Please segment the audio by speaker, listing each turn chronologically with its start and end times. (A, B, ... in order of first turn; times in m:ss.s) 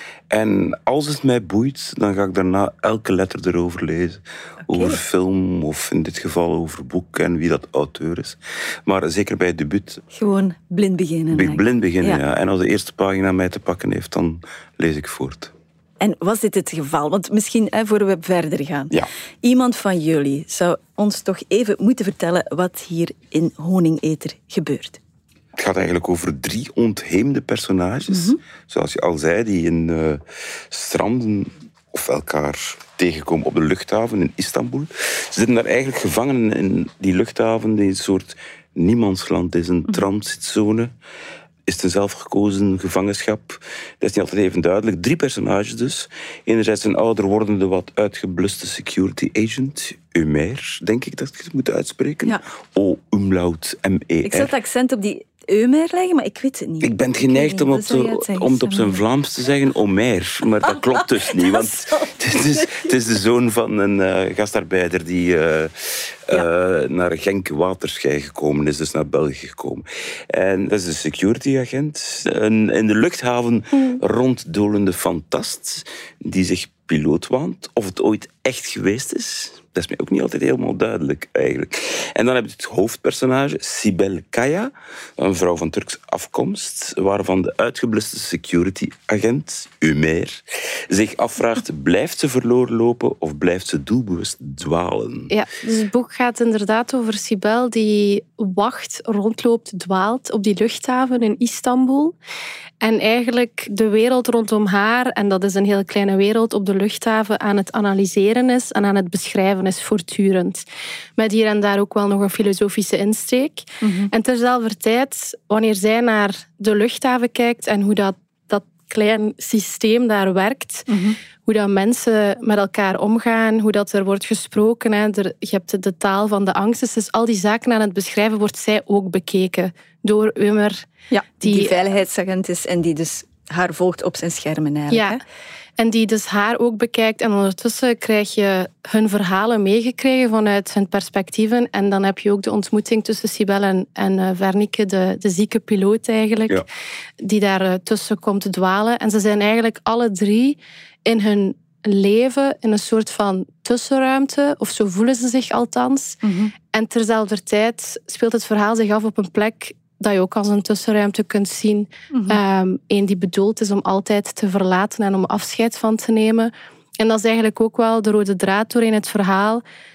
0:00.3-0:10.0 A
0:04.7-0:05.0 B
0:10.1-0:12.2 B
0:11.3-0:15.5 A
0:16.0-0:25.0 B
0:25.6-0:40.9 A
0:28.1-0:28.4 B
0:41.6-0:54.5 A
0:54.2-0:59.0 B
0:56.8-1:35.3 A
1:00.7-1:02.9 B
1:35.3-1:42.2 C
1:42.8-1:50.6 C
1:51.2-2:00.9 C
1:53.8-1:54.1 B
2:00.9-2:01.2 B
2:01.4-2:10.9 C
2:11.1-2:15.2 B
2:11.4-2:11.8 C
2:14.9-2:15.2 C
2:15.8-2:26.6 C
2:27.2-2:49.6 C
2:36.2-2:36.5 B
2:42.1-2:42.4 B